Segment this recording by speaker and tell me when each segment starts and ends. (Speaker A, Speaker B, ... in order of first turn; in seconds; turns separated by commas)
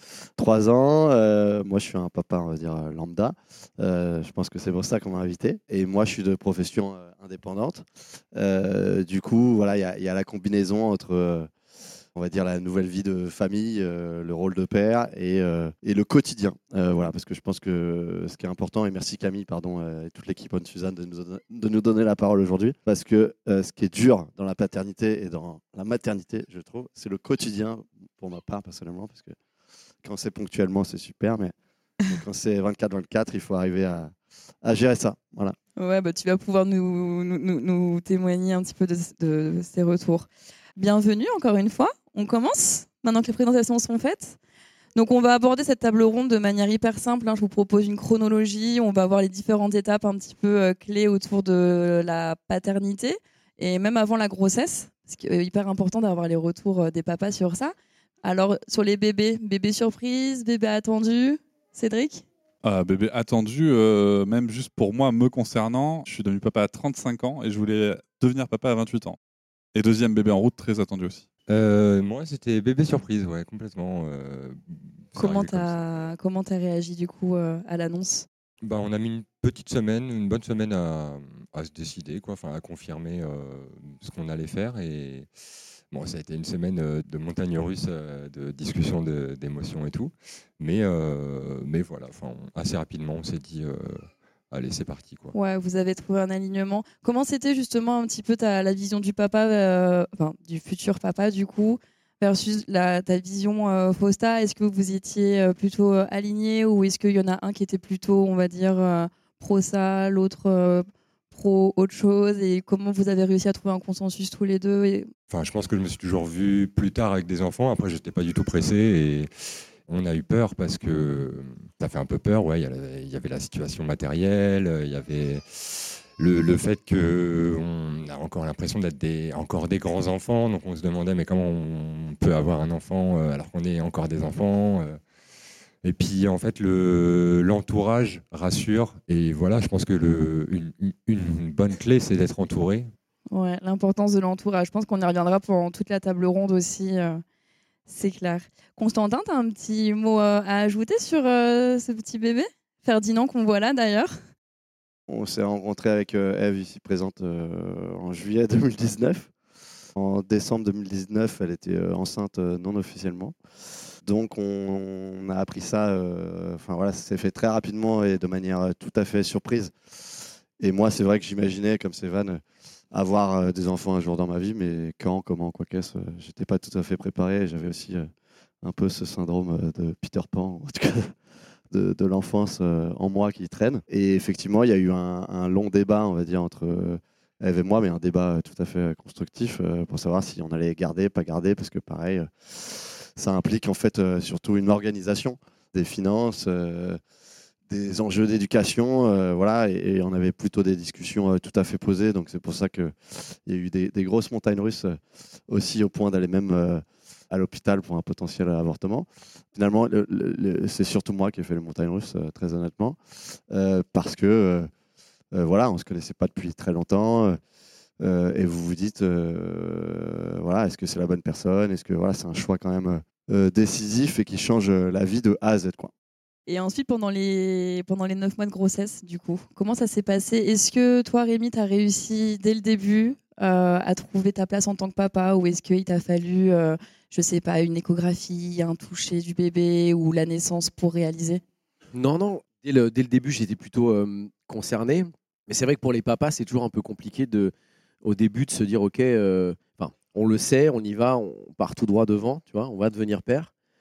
Speaker A: 0.4-11.5, Speaker A: 12.2-29.4, Speaker A: 30.0-31.5, Speaker A: 32.1-35.6, Speaker B: 35.8-44.4, Speaker B: 45.0-62.2, Speaker C: 62.6-69.2, Speaker C: 69.8-71.3, Speaker D: 71.5-75.8, Speaker B: 75.2-78.3, Speaker D: 78.6-85.3, Speaker D: 85.9-95.3, Speaker B: 95.3-115.1, Speaker D: 115.3-119.3, Speaker D: 119.9-135.0, Speaker D: 135.8-142.9, Speaker B: 143.3-147.2, Speaker B: 147.9-154.2, Speaker A: 155.1-159.3, Speaker A: 159.9-163.3, Speaker A: 164.0-169.7, Speaker A: 170.6-178.1, Speaker A: 178.6-181.1, Speaker A: 181.7-197.0, Speaker A: 197.7-213.0, Speaker A: 213.5-214.7, Speaker A: 215.3-217.4, Speaker A: 218.0-225.9, Speaker B: 226.5-241.4, Speaker E: 241.9-253.5